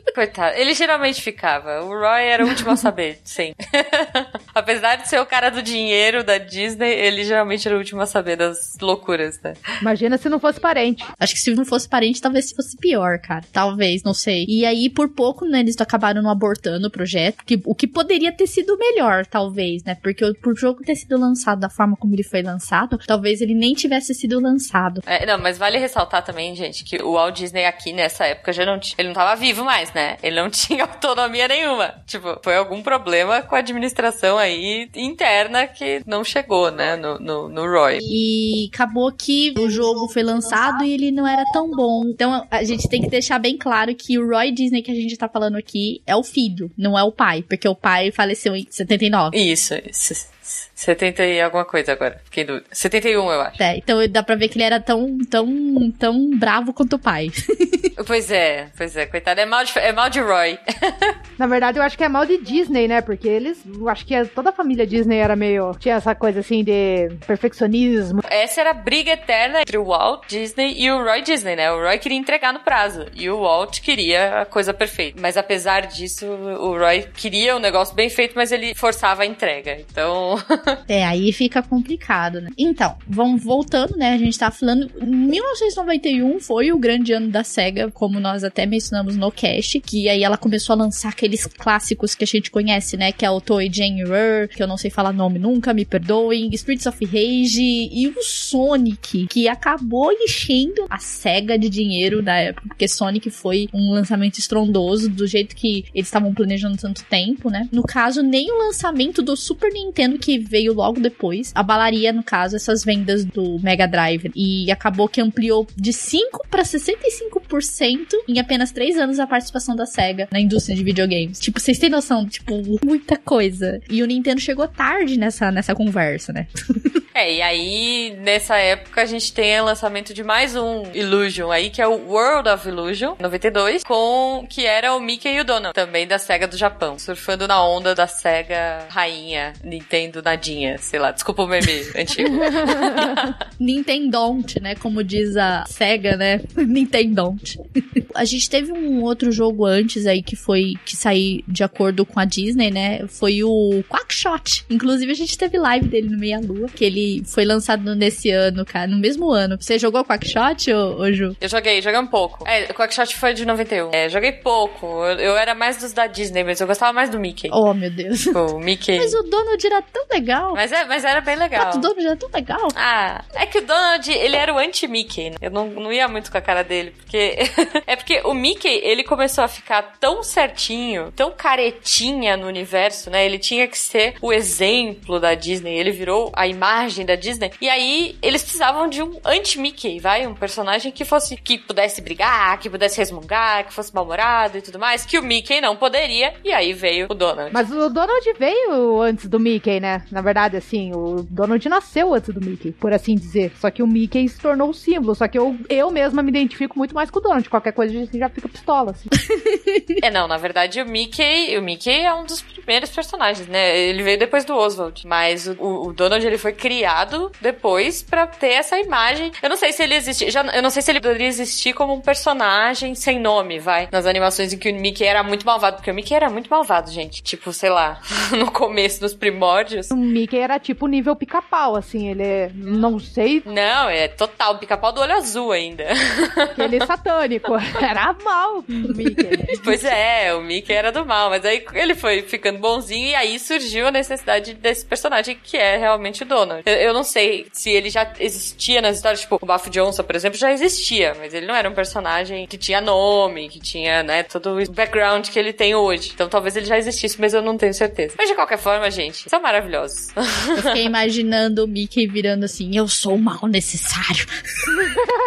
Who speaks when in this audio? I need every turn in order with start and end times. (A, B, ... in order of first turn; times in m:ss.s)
0:00.1-0:09.6 A
0:02.5-0:02.8 B
0:09.8-0:11.1 C
0:11.2-0:25.0 B
0:25.0-0:38.1 A
0:38.1-0:49.4 B
0:49.3-0:53.6 A
0:53.6-0:57.9 B
0:58.0-1:01.1 A
1:01.4-1:08.2 C
1:08.2-1:20.8 A
1:20.9-2:07.0 B
2:07.1-2:23.3 A
2:23.6-2:41.4 B
2:41.4-2:47.6 A
2:47.5-2:48.4 B
2:48.3-2:49.2 A
2:49.0-2:50.6 B
2:50.5-2:51.9 A
2:51.6-2:52.8 B
2:52.7-3:17.6 A
3:17.5-3:29.1 C
3:29.4-3:29.8 B
3:30.0-3:49.9 A
3:49.9-3:53.4 C
3:53.4-3:56.8 A
3:56.6-3:59.6 C
3:59.5-4:20.8 A
4:20.6-4:25.0 B